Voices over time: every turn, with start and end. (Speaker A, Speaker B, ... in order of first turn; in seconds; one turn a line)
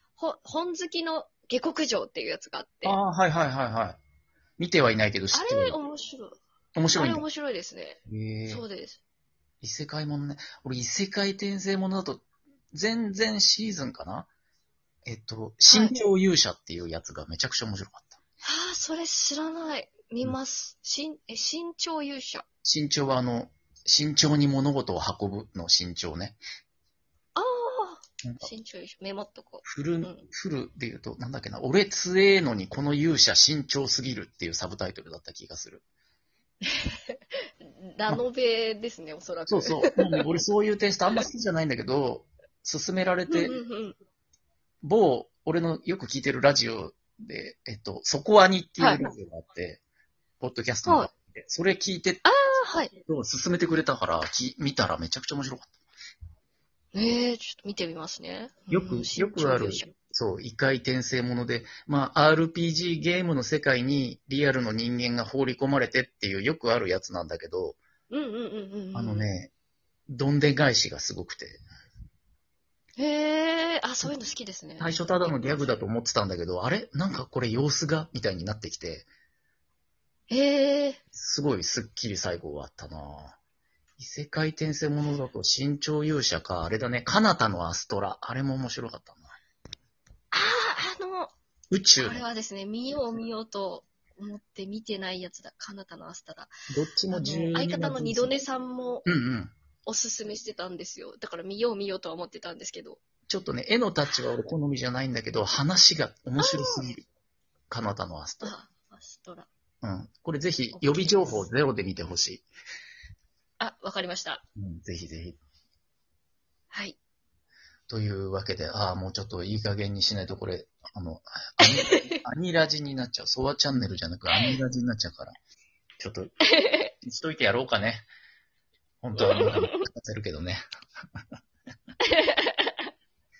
Speaker A: 0.2-3.0
Speaker B: 2.8-4.0
Speaker B: 4.6-5.8
Speaker A: 5.3-6.3
Speaker B: 6.7-7.2
Speaker A: 6.9-9.0
Speaker B: 8.1-8.6
Speaker B: 9.6-14.3
Speaker B: 15.1-18.2
Speaker A: 15.7-16.0
Speaker A: 18.4-22.4
Speaker B: 22.6-26.4
Speaker A: 27.4-30.2
Speaker B: 29.6-35.8
Speaker A: 36.7-37.4
Speaker A: 38.0-40.2
Speaker B: 39.5-43.5
Speaker A: 43.3-44.0
Speaker B: 44.8-49.8
Speaker A: 48.8-49.1
Speaker B: 50.4-52.2
Speaker A: 52.2-52.9
Speaker B: 53.0-55.7
Speaker A: 56.9-59.9
Speaker B: 58.7-67.8
Speaker A: 68.1-69.3
Speaker B: 68.9-69.5
Speaker B: 70.1-71.6
Speaker A: 73.0-75.7
Speaker B: 74.8-79.1
Speaker A: 80.3-81.0
Speaker B: 81.1-83.3
Speaker B: 84.0-89.3
Speaker A: 90.3-91.3
Speaker B: 91.7-92.2
Speaker A: 92.0-96.5
Speaker B: 96.7-98.4
Speaker A: 97.1-99.1
Speaker B: 99.0-99.5
Speaker A: 99.8-103.0
Speaker B: 103.3-107.0
Speaker A: 106.4-106.9
Speaker B: 107.7-108.5
Speaker A: 108.4-109.5
Speaker B: 109.8-112.5
Speaker A: 110.7-111.5
Speaker A: 113.6-114.4
Speaker B: 114.6-115.4
Speaker B: 117.9-125.3
Speaker A: 121.6-122.2
Speaker B: 126.0-126.3
Speaker A: 126.4-126.9
Speaker B: 127.0-128.1
Speaker B: 129.0-130.6
Speaker A: 129.2-129.8
Speaker A: 132.0-132.7